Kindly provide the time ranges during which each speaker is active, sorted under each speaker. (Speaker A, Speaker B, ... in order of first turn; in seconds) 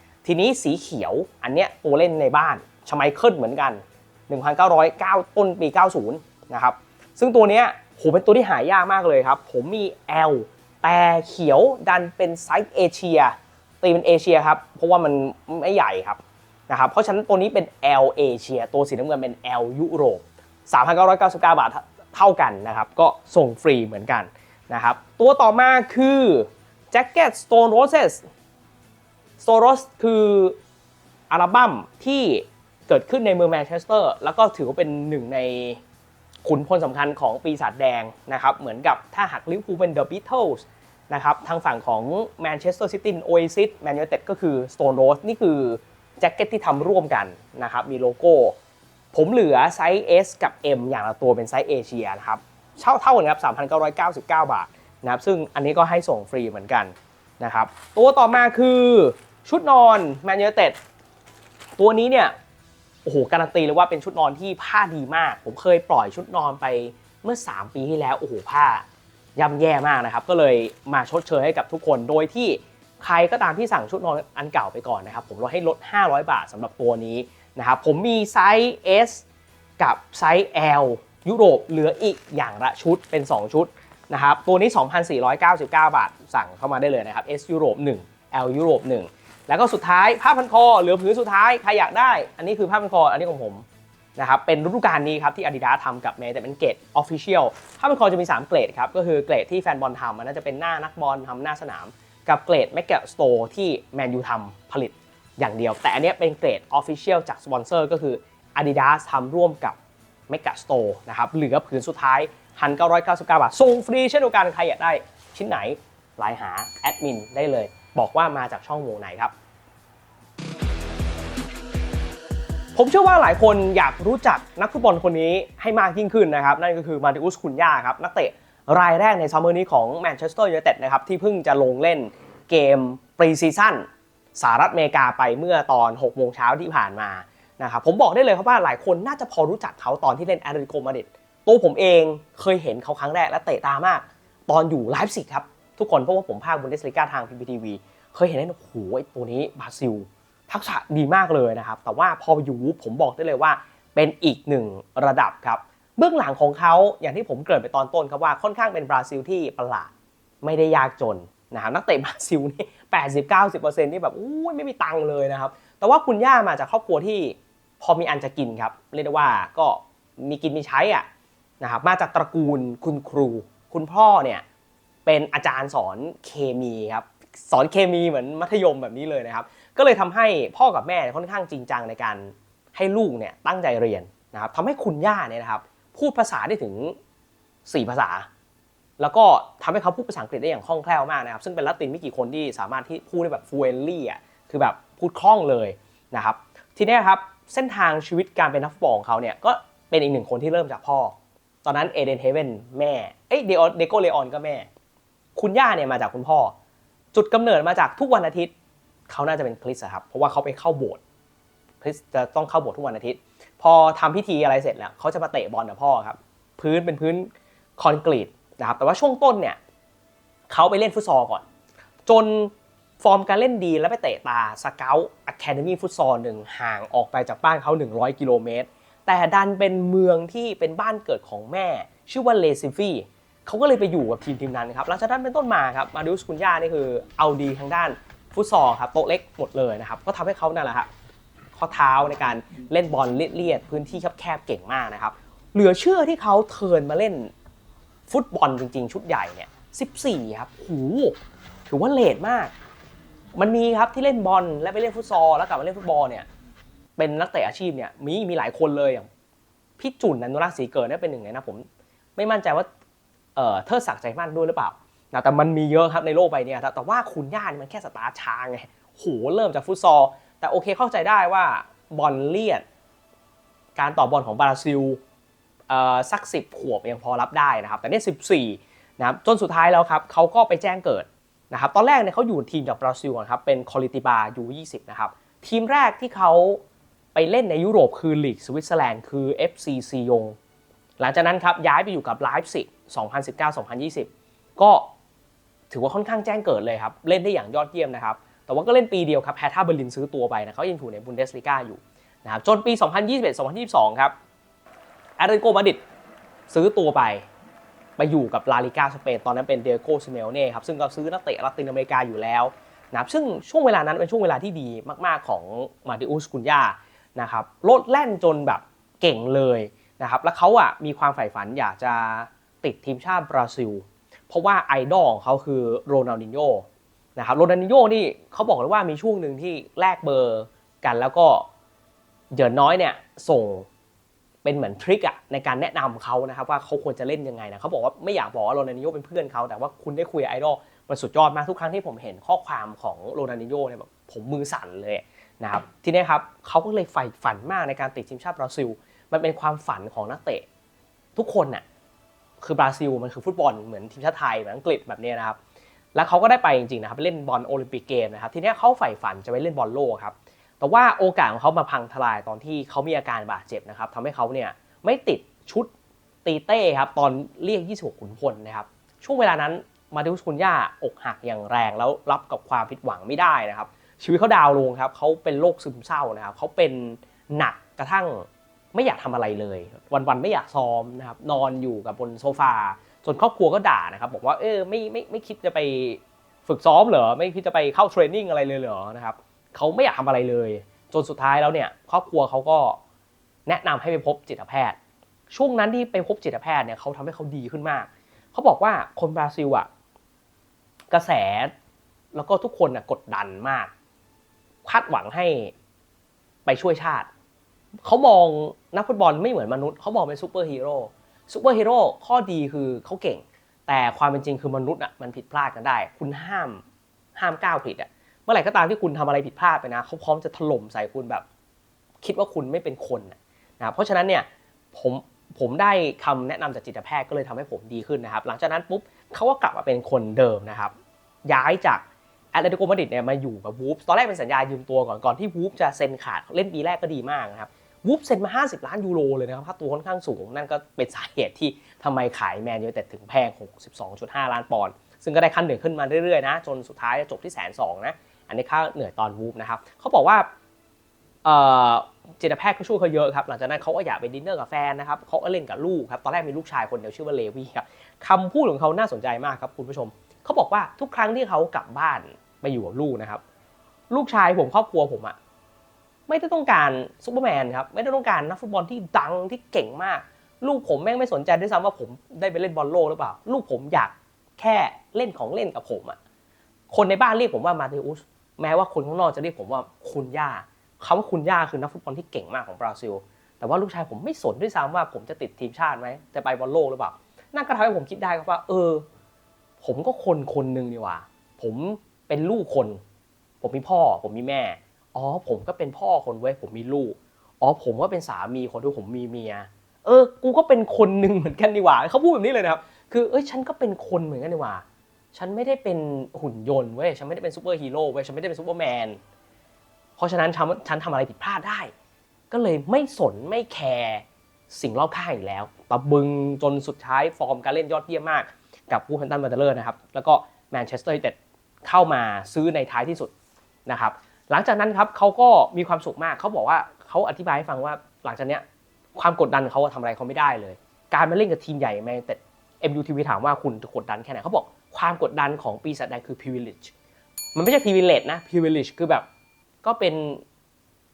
Speaker A: 0.2-28.3, 29.4-30.6, 31.3-35.8, 36.5-48.6, 49.1-60.8, 61.8-62.3, 63.0-79.2, 79.8-93.7, 94.2-109.8, 110.3-119.3, 122.8-159.9, 160.4-171.1, 171.6-174.4, 175.1-186.9, 187.7-188.3, 189.0-204.7, 205.4-206.6, 207.1-208.5, 209.1-211.0, 211.8-219.6, 220.5-221.4, 222.1-240.9, 241.6-247.3, 248.1-252.5, 253.4-256.3, 257.0-259.1, 259.8-261.7, 262.2-262.7, 263.4-272.6, 273.8-275.0, 275.7-286.6, 287.1-290.4, 291.0-294.9, 295.7-304.1, 305.2-305.8, 306.5-307.3, 308.0-331.5, 332.3-333.7, 334.4-350.5, 351.2-351.6, 352.4-355.4, 355.9-365.7, 366.2-392.8, 393.5-394.8, 395.3-399.7, 400.9-401.5, 402.1-403.7, 404.6-405.5, 406.5-407.1, 407.9-416.6, 417.2-421.2, 422.0-430.7, 431.3-450.3, 451.2-463.2, 463.9-465.2, 466.1-476.0, 476.7-488.8, 489.6-492.8, 493.4-509.0, 510.0-511.7, 512.3-523.1, 523.7-528.4, 529.0-536.7, 537.4-539.1, 539.6-540.2